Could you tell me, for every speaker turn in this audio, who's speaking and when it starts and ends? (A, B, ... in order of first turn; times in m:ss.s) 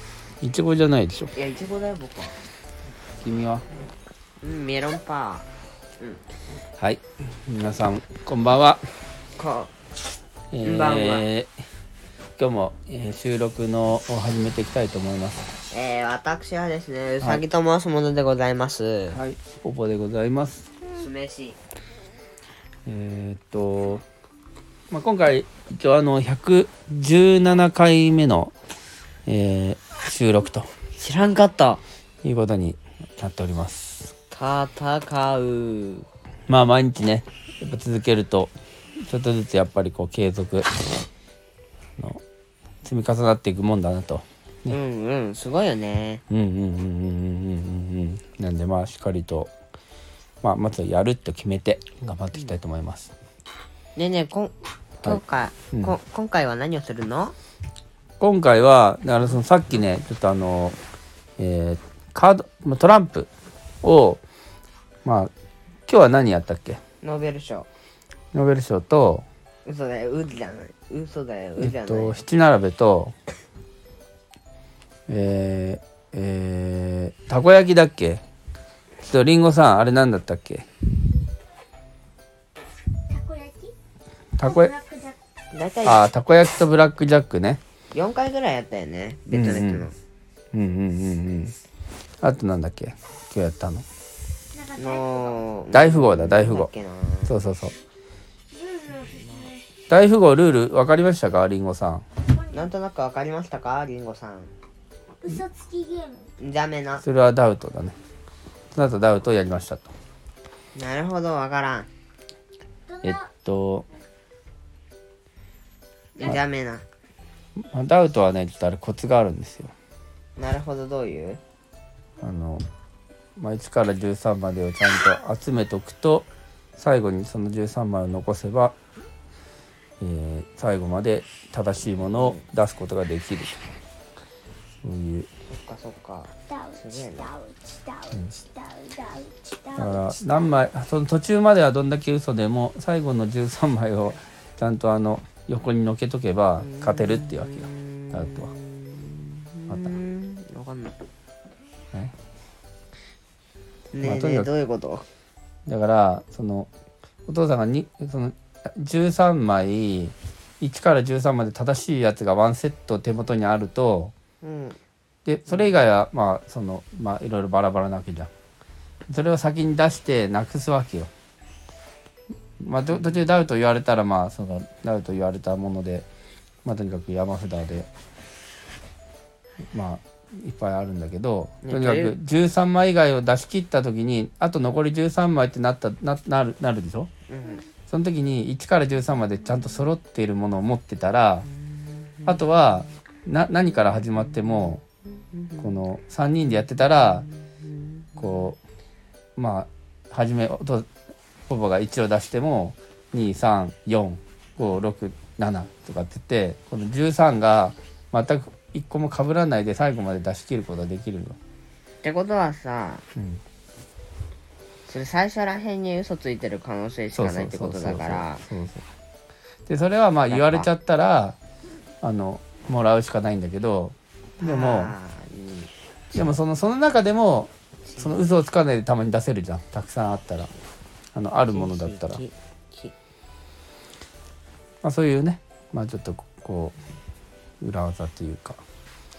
0:00.4-0:01.3 A
0:01.3-0:02.4 B
0:03.2-0:03.6 A
0:04.4-0:05.5 B
0:06.0-0:06.2 B
0:06.8-0:08.8 A
0:09.4-0:09.7 B
0:10.5-0:11.5 A
0:10.6-0:11.3 B
0:12.4-0:15.5 A
0:15.7-0:19.2 B
0:19.1-0:20.7 A
0:20.9-0:21.6 B
0:22.8-0:24.0 A
0:24.9-0:28.5 A
0:29.2-0:30.7 A
0:31.0-0:31.8 B
0:32.2-0:34.1 A
0:34.3-0:36.1 B
0:36.5-0:40.7 A
0:42.8-0:44.8 A
0:44.7-0:46.2 B
0:46.3-0:49.5 A
0:50.4-0:53.1 A
0:54.0-0:57.3 B
0:55.7-0:56.0 A
0:58.2-1:00.8 A
1:01.4-1:03.3 A
1:03.8-1:04.2 A
1:05.0-1:05.3 A
1:05.9-1:06.8 A
1:07.0-1:07.7 B
1:08.3-1:09.2 A
1:09.6-1:12.2 B
1:11.6-1:13.1 A
1:15.1-1:18.2 A
1:19.0-1:20.6 A
1:23.1-1:23.7 C
1:24.4-1:24.7 A
1:24.4-1:25.2 C
1:25.5-1:26.0 B
1:25.8-1:27.6 A
1:27.9-1:29.9 B
1:29.3-1:29.9 A
1:30.5-1:31.5 A
1:32.2-1:33.8 A
1:34.5-1:35.4 C
1:34.7-1:37.3 B
1:35.7-1:36.7 A
1:37.2-1:37.7 A
1:38.5-1:39.7 C
1:39.9-1:42.0 A
1:42.3-1:42.6 C
1:42.4-1:44.5 B
1:45.2-1:46.3 C
1:46.4-1:47.0 B
1:47.0-1:48.0 A
1:48.7-1:49.9 A
1:50.7-1:51.9 B
1:52.9-1:53.2 C
1:53.0-1:53.8 A
1:56.2-1:56.8 B
1:57.6-1:59.7 A
2:00.4-2:01.4 B
2:02.2-2:02.6 A
2:03.4-2:06.2 A
2:06.8-2:08.7 A
2:10.0-2:13.5 A
2:14.8-2:15.3 A
2:15.4-2:17.3 B
2:16.5-2:20.5 C
2:18.1-2:18.4 A
2:19.7-2:28.5 A
2:26.6-2:31.0 B
2:29.7-2:30.0 A
2:33.9-2:35.0 B
2:34.0-2:34.5 A
2:35.6-2:36.7 A
2:37.3-2:44.1 A
2:44.4-2:44.8 B
2:45.2-2:48.3 A
2:49.1-2:51.1 A
2:52.6-2:56.0 A
2:56.6-2:57.9 A
2:59.7-3:07.1 A
3:01.6-3:02.2 B
3:07.3-3:07.6 B
3:07.9-3:11.5 A
3:11.8-3:12.4 B
3:12.2-3:14.8 A
3:15.4-3:15.6 B
3:15.6-3:17.3 A
3:17.3-3:17.8 B
3:18.2-3:18.6 A
3:19.4-3:20.9 A
3:21.5-3:31.4 A
3:32.0-3:33.0 B
3:33.2-3:33.4 A
3:34.9-3:38.4 B
3:37.1-3:38.8 A
3:39.7-3:41.4 A
3:40.3-3:40.7 B
3:42.0-3:44.9 A
3:44.4-3:46.3 B
3:46.1-3:50.5 A
3:47.8-3:48.3 B
3:51.1-3:52.2 A
3:51.4-3:52.9 B
3:54.8-3:56.7 A
3:57.6-3:58.6 A